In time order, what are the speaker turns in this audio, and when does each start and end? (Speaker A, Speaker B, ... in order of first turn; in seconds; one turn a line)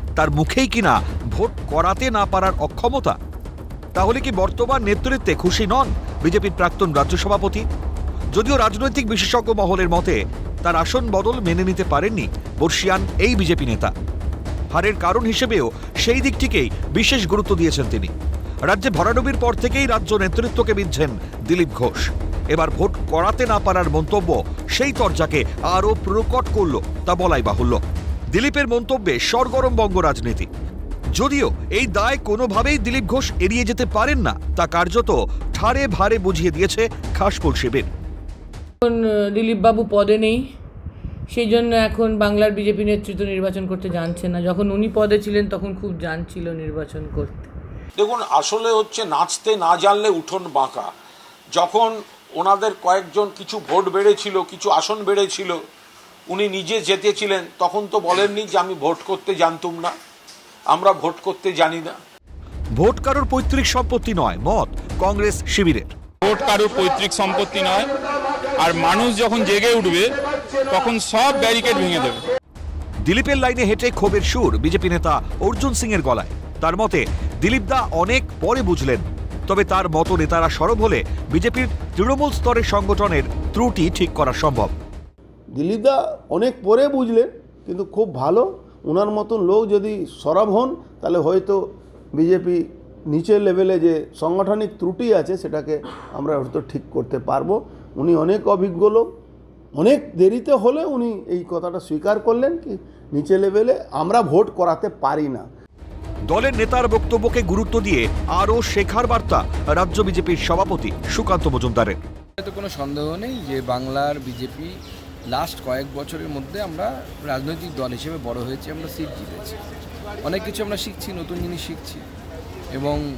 Speaker A: 0.2-3.2
Speaker A: 3.9-7.6
Speaker A: 8.3-13.9
Speaker A: 14.7-18.1
Speaker A: 18.6-27.8
Speaker A: 28.3-30.5
Speaker A: 31.1-37.9
Speaker B: 38.8-40.4
Speaker B: 41.3-47.5
Speaker C: 48.0-50.9
Speaker C: 51.5-55.6
Speaker C: 56.3-59.9
Speaker C: 60.7-62.0
Speaker A: 62.8-65.9
Speaker D: 66.3-67.9
Speaker D: 68.6-70.1
Speaker D: 70.7-72.2
Speaker A: 73.0-84.7
Speaker E: 85.5-91.6
Speaker E: 92.1-99.0
Speaker E: 99.8-105.5
Speaker A: 106.3-112.0
Speaker F: 112.4-114.7
Speaker F: 115.3-119.5
Speaker F: 120.2-122.0
Speaker F: 122.7-123.0